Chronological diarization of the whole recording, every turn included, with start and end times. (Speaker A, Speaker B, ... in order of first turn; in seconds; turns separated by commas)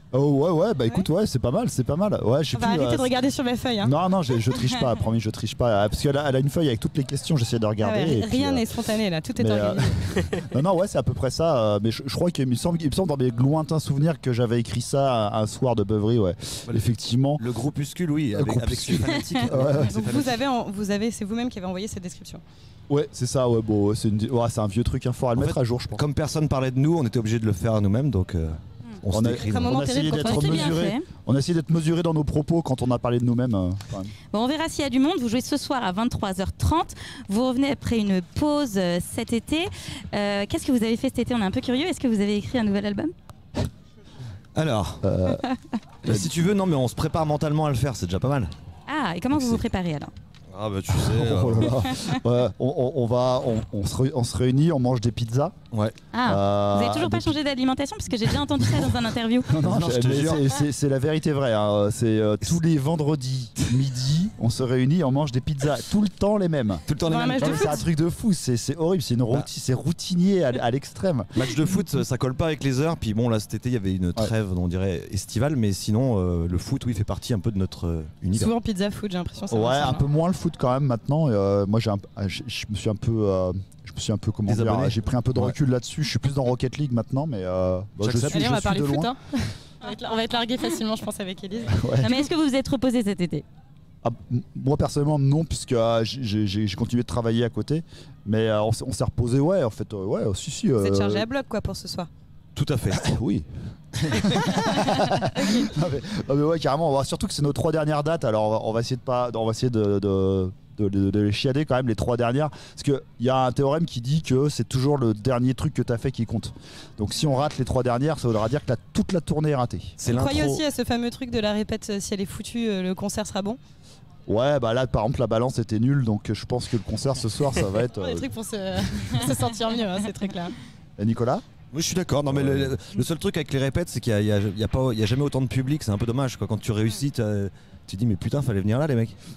Speaker A: 0.1-3.1, Speaker B: 2.5-3.9, Speaker A: 3.8-8.7, Speaker B: 7.8-10.3, Speaker A: 9.3-17.4, Speaker C: 16.7-20.4, Speaker A: 18.3-20.0, Speaker B: 19.8-22.4, Speaker A: 22.9-26.0, Speaker C: 25.4-29.8, Speaker A: 29.1-34.1, Speaker B: 29.4-30.8, Speaker D: 30.1-31.1, Speaker D: 34.3-43.1, Speaker C: 44.5-45.0, Speaker A: 45.0-45.4, Speaker C: 46.0-48.5, Speaker A: 46.0-46.3, Speaker D: 48.9-50.1, Speaker C: 49.3-49.6, Speaker C: 50.5-52.0, Speaker A: 50.9-55.5, Speaker D: 56.1-59.5, Speaker A: 56.2-57.3, Speaker A: 59.5-71.3, Speaker C: 59.5-60.6, Speaker C: 66.8-67.8, Speaker B: 67.1-67.8, Speaker C: 71.3-78.5, Speaker B: 78.3-80.0, Speaker A: 79.5-89.1, Speaker C: 84.5-85.5, Speaker C: 88.0-88.5, Speaker B: 88.3-91.7, Speaker A: 91.7-92.1, Speaker D: 92.0-93.4, Speaker A: 94.0-101.3, Speaker B: 100.8-102.1, Speaker C: 102.5-103.0, Speaker A: 102.9-120.0, Speaker C: 104.2-104.5, Speaker B: 104.9-105.7, Speaker C: 120.0-120.6, Speaker B: 120.1-123.6, Speaker A: 124.3-128.3, Speaker B: 128.0-130.5, Speaker A: 131.0-131.4, Speaker C: 131.7-139.2, Speaker A: 132.3-132.7